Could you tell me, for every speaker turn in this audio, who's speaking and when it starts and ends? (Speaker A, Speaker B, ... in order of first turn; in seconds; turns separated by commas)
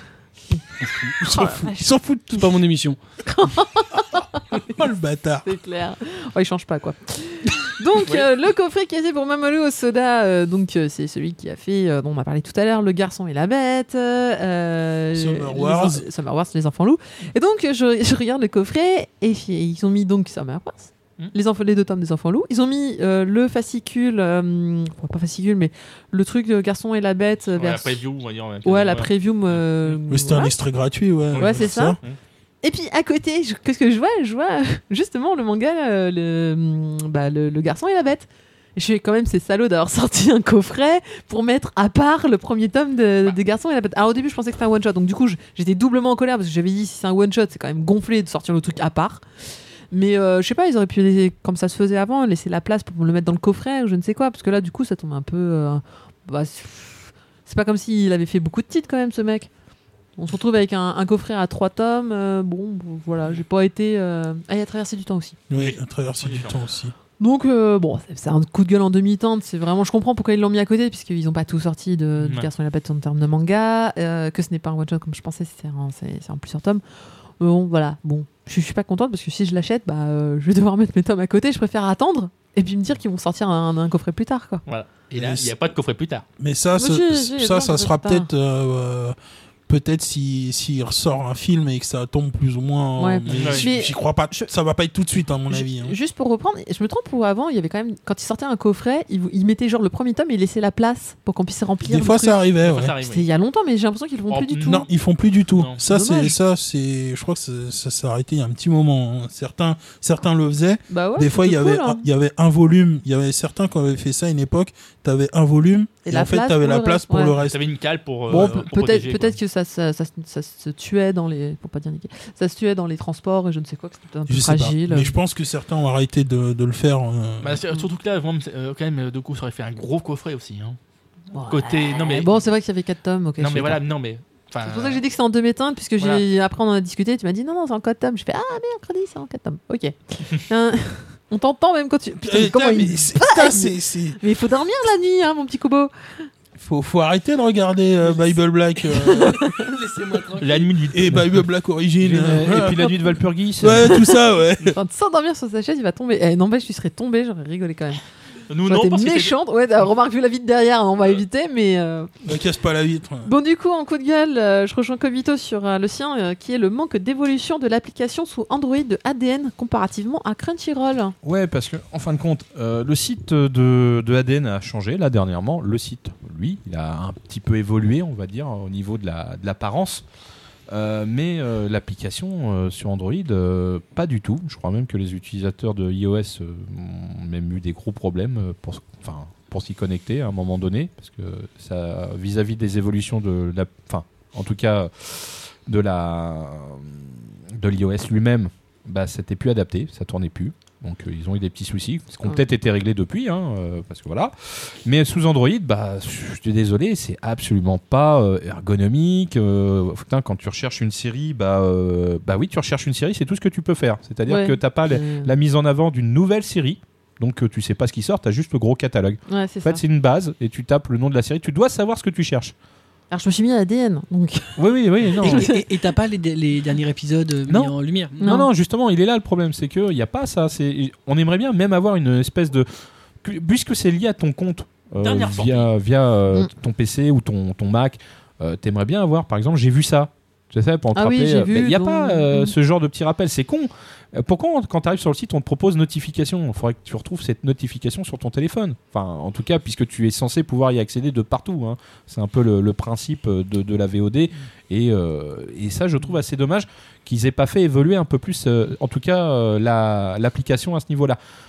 Speaker A: 0.8-1.2, Speaker B: 1.2-1.9, Speaker C: 1.2-2.4, Speaker A: 2.2-3.0, Speaker B: 3.2-4.8, Speaker C: 4.7-5.5, Speaker B: 5.4-28.0, Speaker C: 15.1-16.0, Speaker D: 27.5-30.0, Speaker B: 28.6-30.6, Speaker C: 30.1-32.0, Speaker D: 31.3-32.2, Speaker B: 31.4-32.0, Speaker B: 32.6-49.2, Speaker B: 49.9-59.5, Speaker B: 60.2-65.4, Speaker C: 65.5-66.9, Speaker D: 65.5-66.6, Speaker B: 67.2-76.8, Speaker D: 72.2-72.5, Speaker B: 77.4-84.6, Speaker D: 84.7-86.2, Speaker C: 85.2-85.5, Speaker C: 86.4-89.2, Speaker B: 86.8-88.3, Speaker C: 89.7-95.9, Speaker B: 93.0-94.5, Speaker D: 93.3-93.7, Speaker B: 95.5-102.4, Speaker C: 101.9-102.9, Speaker D: 102.6-103.3, Speaker B: 103.0-104.9, Speaker D: 104.3-104.9, Speaker C: 104.7-117.6, Speaker D: 105.5-105.8, Speaker B: 105.9-106.4, Speaker B: 110.9-112.0, Speaker B: 116.0-117.3, Speaker D: 117.4-119.4, Speaker B: 118.3-125.2, Speaker C: 124.3-127.6, Speaker D: 127.4-130.8, Speaker B: 131.3-133.8, Speaker D: 131.5-132.3, Speaker D: 133.4-135.0, Speaker B: 134.6-146.3, Speaker D: 136.0-136.2, Speaker C: 142.2-144.2, Speaker C: 146.6-149.5, Speaker B: 148.9-149.7, Speaker A: 149.5-150.7, Speaker D: 150.4-151.2, Speaker C: 150.9-152.9, Speaker E: 152.0-154.0, Speaker B: 152.7-152.9, Speaker C: 153.6-154.8, Speaker B: 153.8-158.0, Speaker D: 158.5-159.3, Speaker B: 158.7-162.1, Speaker C: 162.2-163.3, Speaker B: 163.2-171.2, Speaker E: 171.2-180.0, Speaker E: 180.7-222.5, Speaker B: 214.3-215.3, Speaker B: 219.3-219.8, Speaker B: 223.1-225.7, Speaker E: 224.6-225.5, Speaker A: 225.2-228.3, Speaker E: 227.5-232.7, Speaker B: 228.2-228.5, Speaker E: 233.2-261.2, Speaker D: 235.0-235.7, Speaker B: 240.9-242.5